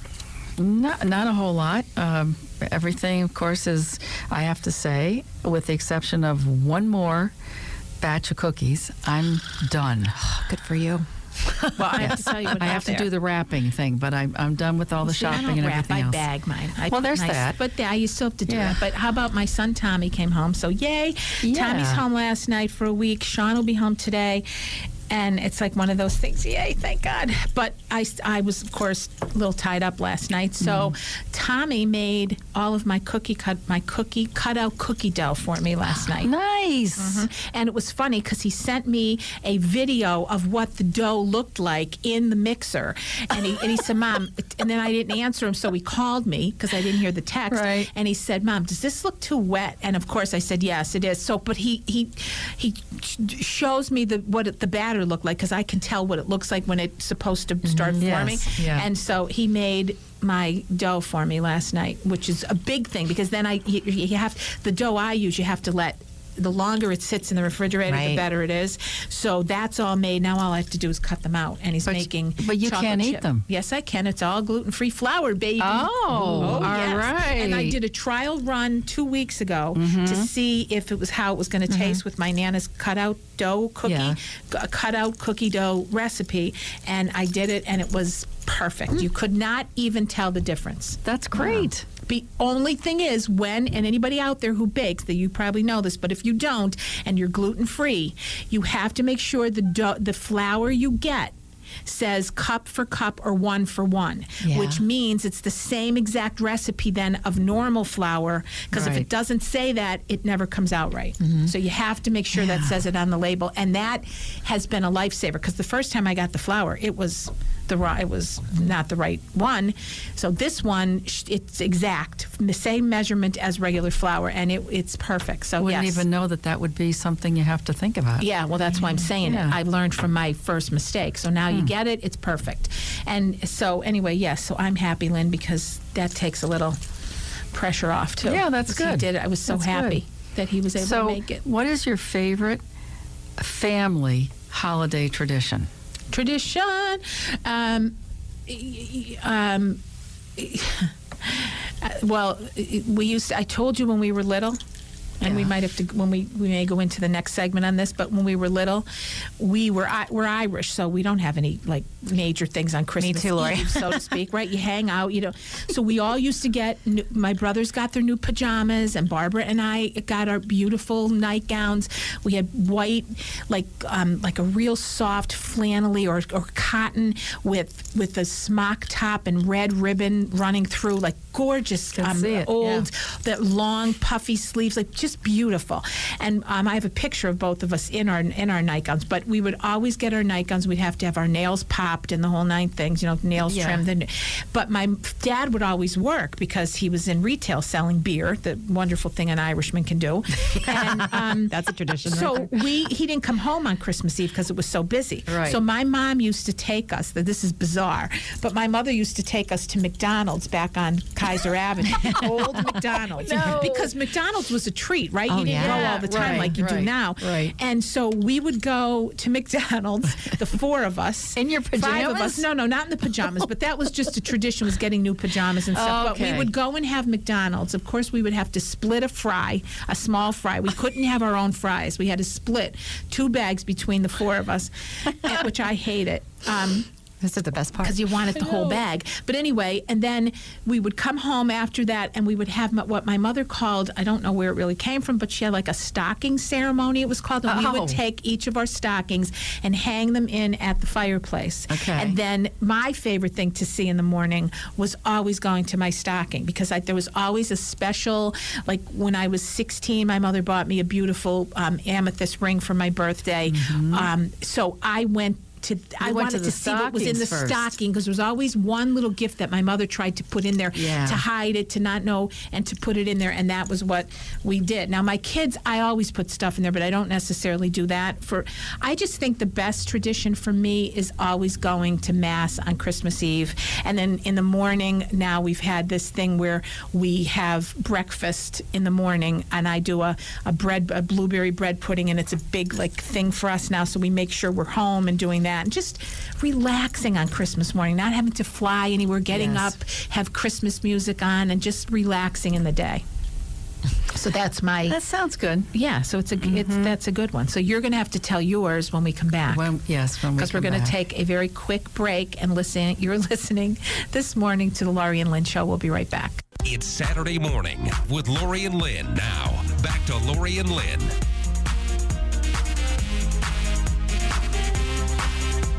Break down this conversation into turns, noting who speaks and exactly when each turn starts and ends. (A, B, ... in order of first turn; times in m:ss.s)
0:00.6-0:07.3 A
0:08.0-0:10.2 A
0:10.2-0:12.6 B
0:11.8-0:13.1 C
0:12.0-0:16.2 A
0:15.0-0:24.5 C
0:16.9-0:17.6 A
0:18.5-0:18.8 A
0:21.4-0:22.0 A
0:25.1-0:36.3 C
0:30.6-0:31.0 A
0:36.2-0:37.3 A
0:37.0-1:41.3 C
0:47.5-0:47.9 A
0:57.6-0:58.0 B
0:57.9-0:58.9 A
1:07.9-1:08.2 B
1:11.8-1:13.5 A
1:15.6-1:17.8 A
1:16.4-1:16.7 B
1:19.8-1:20.3 A
1:21.7-1:22.0 B
1:23.8-1:24.2 A
1:31.0-1:31.9 A
1:41.8-2:06.0 C
1:44.4-1:44.8 B
1:48.7-1:49.1 A
1:51.2-1:51.5 B
1:52.4-1:52.7 B
2:05.6-2:08.3 A
2:08.2-2:16.8 C
2:08.8-2:09.6 A
2:17.5-2:21.4 C
2:18.2-2:20.0 A
2:20.8-2:22.6 A
2:23.4-2:25.7 A
2:26.1-2:28.0 C
2:28.5-2:29.8 C
2:30.4-2:34.6 C
2:35.2-2:38.9 C
2:39.4-3:56.9 C
2:43.0-2:44.1 B
3:02.0-3:02.9 A
3:13.4-3:13.8 A
3:20.5-3:22.7 B
3:25.3-3:25.6 A
3:33.2-3:33.9 A
3:35.3-3:36.6 B
3:35.5-3:37.5 A
3:41.4-3:42.5 A
3:45.7-3:46.5 A
3:57.2-3:58.6 B
3:57.8-5:03.0 C
4:07.5-4:08.0 A
4:11.7-4:12.2 A
4:23.5-4:24.1 A
4:26.0-4:27.7 A
4:30.7-4:31.2 A
4:59.3-4:59.7 A
5:04.1-5:05.0 C
5:04.9-5:05.7 A
5:05.7-5:09.6 C
5:06.4-5:07.0 A
5:09.5-5:10.9 A
5:10.4-5:16.4 C
5:16.6-5:21.1 D